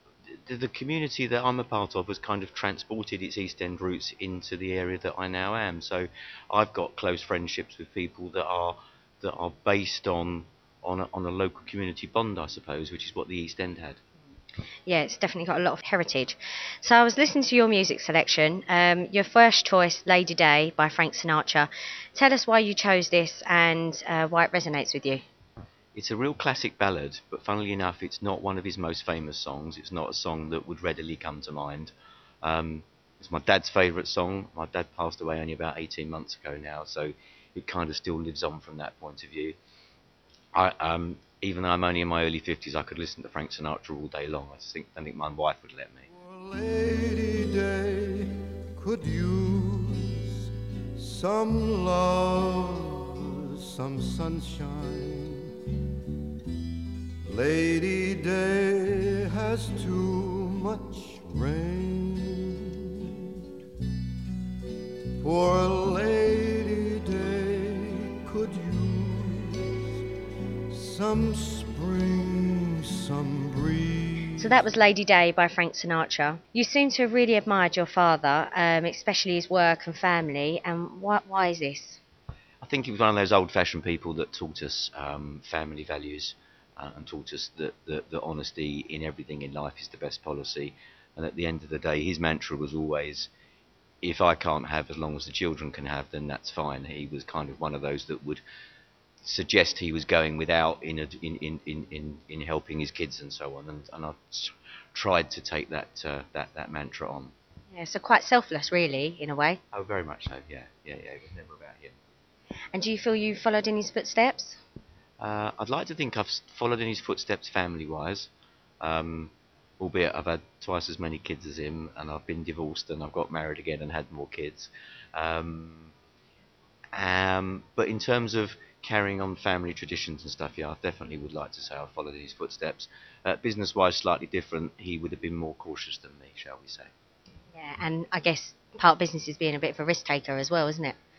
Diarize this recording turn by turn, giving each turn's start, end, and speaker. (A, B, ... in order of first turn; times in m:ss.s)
0:00.3-0:14.0 A
0:14.9-0:25.2 B
0:25.9-0:31.9 A
0:32.4-0:39.6 A
0:40.5-0:46.1 A
0:46.1-0:55.5 C
0:57.2-1:03.3 C
1:05.2-1:09.7 C
1:10.7-1:14.6 C
1:14.4-1:22.0 B
1:22.6-1:33.3 A
1:34.0-1:38.4 A
1:39.2-1:47.3 A
1:47.7-1:49.6 B
1:49.7-1:52.0 A
1:52.7-1:54.6 B
1:55.2-1:58.3 A
1:58.8-2:05.9 A
2:06.9-2:16.9 A
2:17.5-2:21.0 B